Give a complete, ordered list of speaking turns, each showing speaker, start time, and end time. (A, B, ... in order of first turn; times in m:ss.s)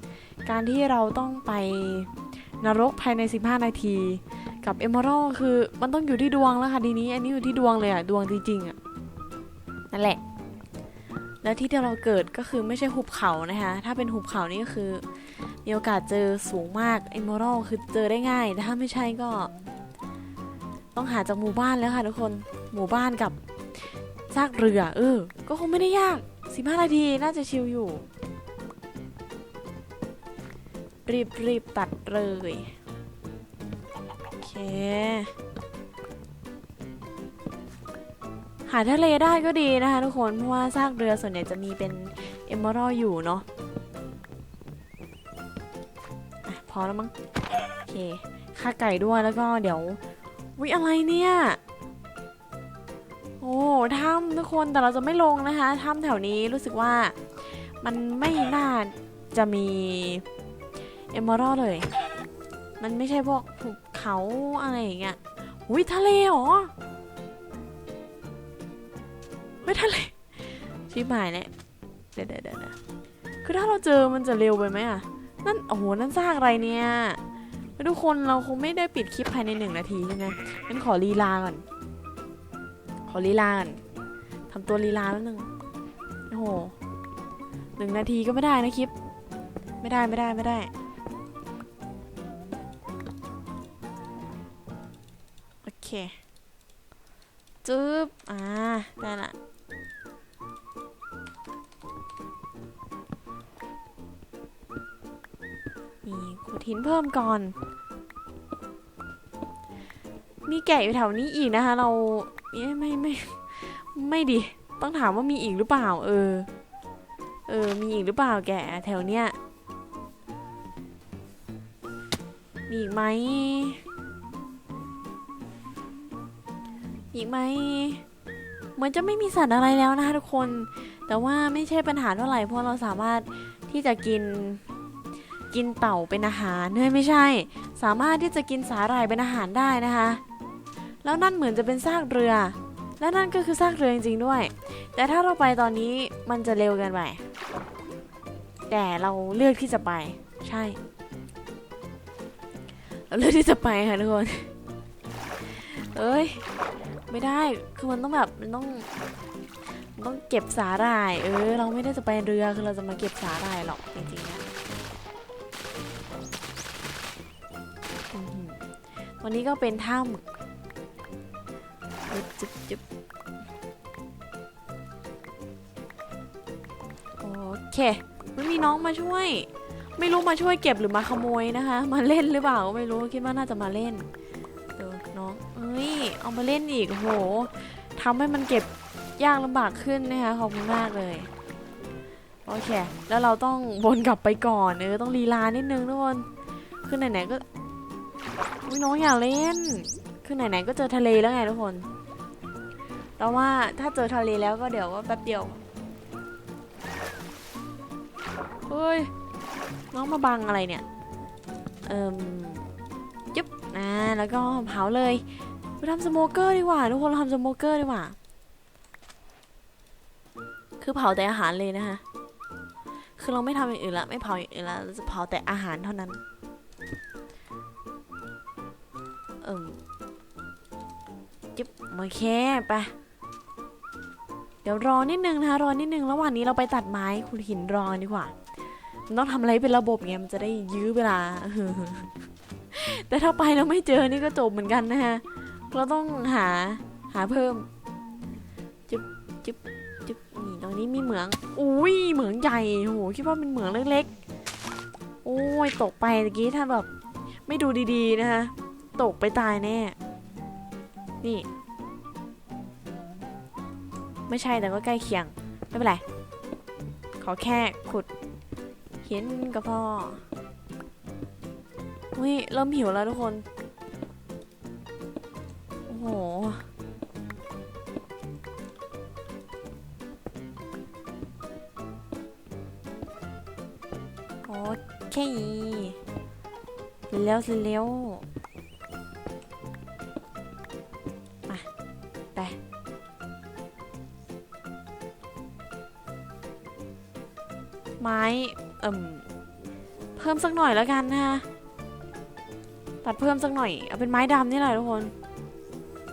0:00.4-0:08.8 A
0:09.9-0:10.2 A
0:11.4-0:15.0 A
0:15.6-0:19.5 A
0:20.9-0:28.0 A
0:31.0-0:32.8 A
0:34.4-0:35.3 A
0:38.6-0:43.4 A
0:46.4-0:47.1 A
0:47.8-0:50.0 A
0:50.6-0:51.6 A
0:53.4-1:00.2 A
1:01.1-1:01.9 A
1:02.8-1:06.7 A
1:09.6-1:11.5 A
1:12.1-1:12.8 A
1:13.4-1:17.2 A
1:17.8-1:21.6 A
1:23.0-1:23.8 A
1:24.5-1:25.5 A
1:26.3-1:26.7 A
1:27.8-1:28.9 A
1:29.8-1:30.7 A
1:35.6-1:36.2 A
1:37.6-1:39.4 A
1:46.0-1:47.6 A
1:50.4-1:56.5 A
1:57.5-1:59.4 A
2:02.7-2:03.8 A
2:07.1-2:08.0 A
2:08.8-2:14.6 A
2:15.5-2:20.2 A
2:21.0-2:27.2 A
2:28.7-2:30.8 A
2:33.1-2:34.5 A
2:35.4-2:36.4 A
2:37.1-2:38.9 A
2:39.9-2:44.5 A
2:48.1-2:48.7 A
2:49.2-2:50.2 A
2:52.1-2:52.8 A
2:57.2-3:04.1 A
3:04.8-3:11.3 A
3:12.4-3:16.3 A
3:16.8-3:17.4 A
3:18.6-3:21.9 A
3:23.2-3:25.6 A
3:28.7-3:29.1 A
3:29.9-3:30.8 A
3:31.8-3:32.7 A
3:33.3-3:35.2 A
3:35.8-3:38.2 A
3:40.8-3:42.0 A
3:43.2-3:46.2 A
3:49.4-3:49.8 A
3:51.5-3:52.9 A
3:54.6-3:58.3 A
3:59.1-4:02.1 A
4:02.7-4:07.7 A
4:08.9-4:14.1 A
4:15.2-4:16.9 A
4:17.4-4:20.0 A
4:21.2-4:21.5 A
4:24.3-4:26.0 A
4:27.2-4:28.1 A
4:29.0-4:30.2 A
4:32.1-4:33.4 A
4:35.9-4:36.7 A
4:44.4-4:46.0 A
4:47.1-4:48.2 A
4:58.0-4:59.3 A
5:00.2-5:01.4 A
5:03.0-5:05.1 A